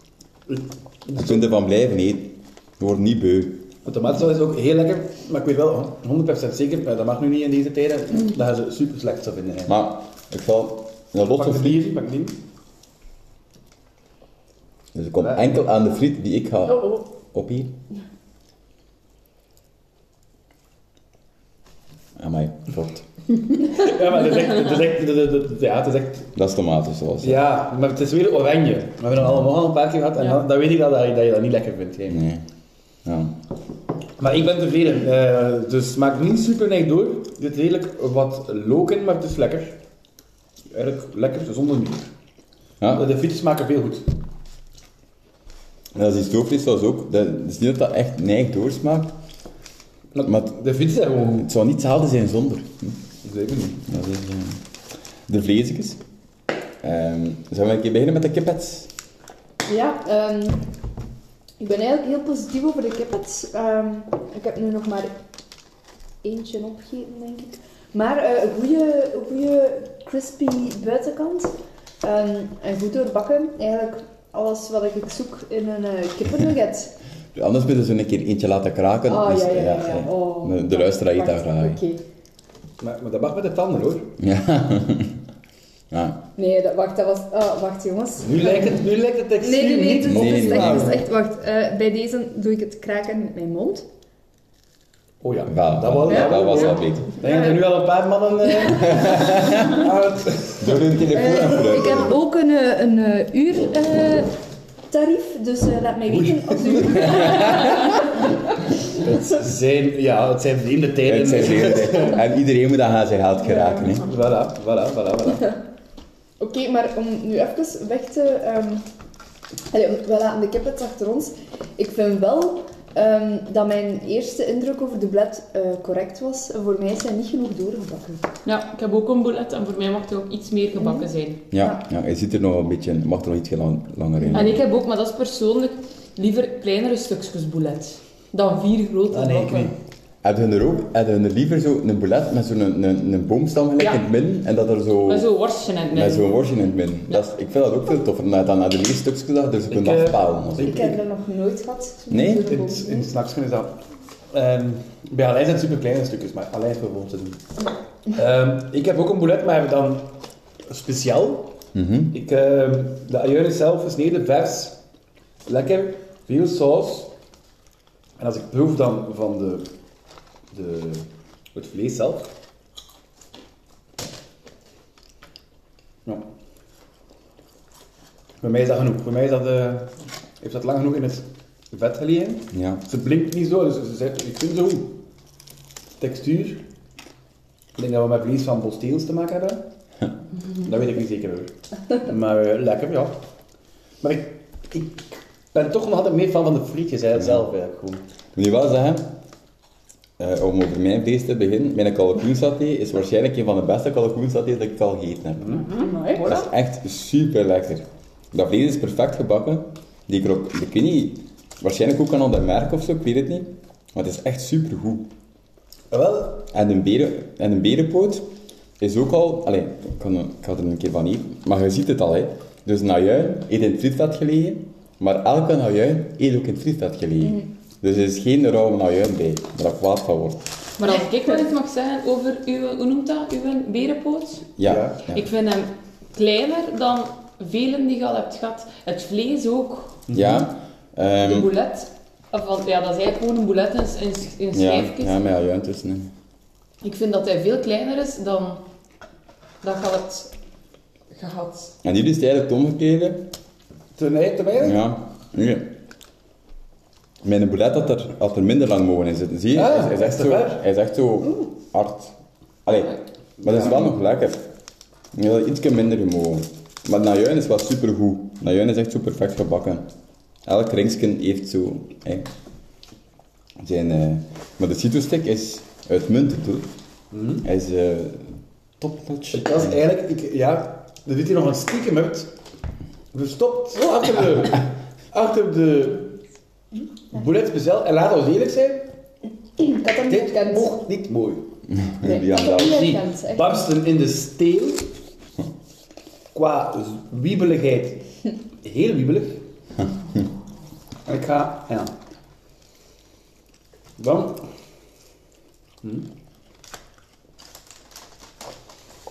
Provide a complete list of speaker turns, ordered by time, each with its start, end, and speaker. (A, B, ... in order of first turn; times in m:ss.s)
0:00.5-0:01.5 A
0:01.2-0:03.7 B
0:03.8-0:09.7 A
0:09.7-0:11.9 B
0:11.3-0:12.4 A
0:14.9-0:17.7 B
0:15.2-0:15.7 A
0:22.2-0:23.0 B
0:23.7-0:26.3 A
0:26.4-0:27.4 B
0:27.2-0:32.2 A
0:32.1-0:32.4 B
0:33.0-0:33.4 B
0:34.2-0:39.8 A
0:40.7-0:42.1 A
0:42.8-0:43.1 B
0:42.9-0:44.2 A
0:45.9-0:49.1 B
0:50.1-0:51.5 A
0:50.2-0:50.5 B
0:51.3-0:53.0 B
0:53.2-0:53.8 A
0:53.8-0:54.6 B
0:55.3-0:56.0 B
0:56.8-0:58.9 B
0:59.7-1:00.7 C
1:01.6-1:05.1 C
1:06.2-1:16.9 C
1:17.3-1:21.8 B
1:19.1-1:22.0 C
1:22.8-1:24.1 A
1:24.2-1:25.2 B
1:25.9-1:26.2 B
1:26.4-1:28.8 C
1:28.2-1:31.0 A
1:29.4-1:33.8 C
1:30.0-1:31.0 B
1:35.2-1:40.9 A
1:35.5-1:37.2 B
1:36.1-1:37.6 C
1:38.7-1:39.9 B
1:40.6-1:42.1 B
1:41.1-1:44.3 C
1:44.9-1:48.3 C
1:46.1-1:47.8 A
1:46.9-1:47.6 B
1:49.0-1:52.2 A
1:51.0-1:54.1 B
1:53.4-1:54.0 C
1:54.0-1:55.5 A
1:56.4-1:58.9 C
1:59.7-2:08.3 C
2:08.4-2:11.4 D
2:10.8-2:11.8 C
2:11.5-2:14.6 B
2:14.2-2:14.5 C
2:14.3-2:19.7 D
2:19.1-2:19.7 A
2:20.2-2:25.3 B
2:23.8-2:24.0 D
2:25.1-2:26.4 D
2:25.9-2:30.8 B
2:29.7-2:31.0 A
2:30.6-2:33.1 C
2:32.1-2:32.5 B
2:32.4-2:33.8 A
2:34.3-2:37.5 A
2:38.1-2:40.2 A
2:40.7-2:41.5 A
2:41.7-2:42.2 B
2:42.1-2:44.8 A
2:45.5-2:47.1 A
2:48.2-2:49.7 A
2:50.5-2:52.3 A
2:58.4-3:05.0 A
3:02.5-3:02.8 B
3:06.0-3:06.6 A
3:07.8-3:09.7 A
3:10.6-3:13.2 A
3:14.0-3:18.0 A
3:17.2-3:17.5 B
3:18.4-3:19.1 B
3:20.2-3:25.6 B
3:25.4-3:25.8 A
3:25.6-3:26.5 D
3:25.7-3:26.5 C
3:26.2-3:35.1 B
3:35.9-3:36.4 A
3:36.5-3:50.4 B
3:50.8-3:54.5 D
3:54.6-3:55.2 B
3:54.6-3:55.0 A
3:55.1-4:00.0 D
4:00.1-4:00.4 A
4:00.1-4:01.5 B
4:01.2-4:05.2 D
4:04.5-4:06.1 B
4:06.8-4:08.6 D
4:09.6-4:10.3 D
4:11.1-4:11.7 D
4:11.8-4:13.3 B
4:14.0-4:14.8 A
4:14.6-4:15.7 B
4:17.2-4:24.4 B
4:19.5-4:20.6 A
4:23.4-4:23.9 A
4:25.1-4:29.9 B
4:30.5-4:32.3 B
4:33.6-4:36.7 B
4:37.1-4:37.4 A
4:37.4-4:39.8 B
4:39.3-4:42.3 A
4:43.1-4:46.1 A
4:47.1-4:48.9 A
4:49.6-4:50.8 C
4:50.1-4:51.5 A
4:51.7-4:52.9 B
4:52.0-4:53.6 C
4:52.5-4:54.9 A
4:56.3-4:58.0 A
4:58.6-4:59.4 A
5:01.1-5:02.0 A
5:04.0-5:04.5 A
5:05.8-5:06.1 A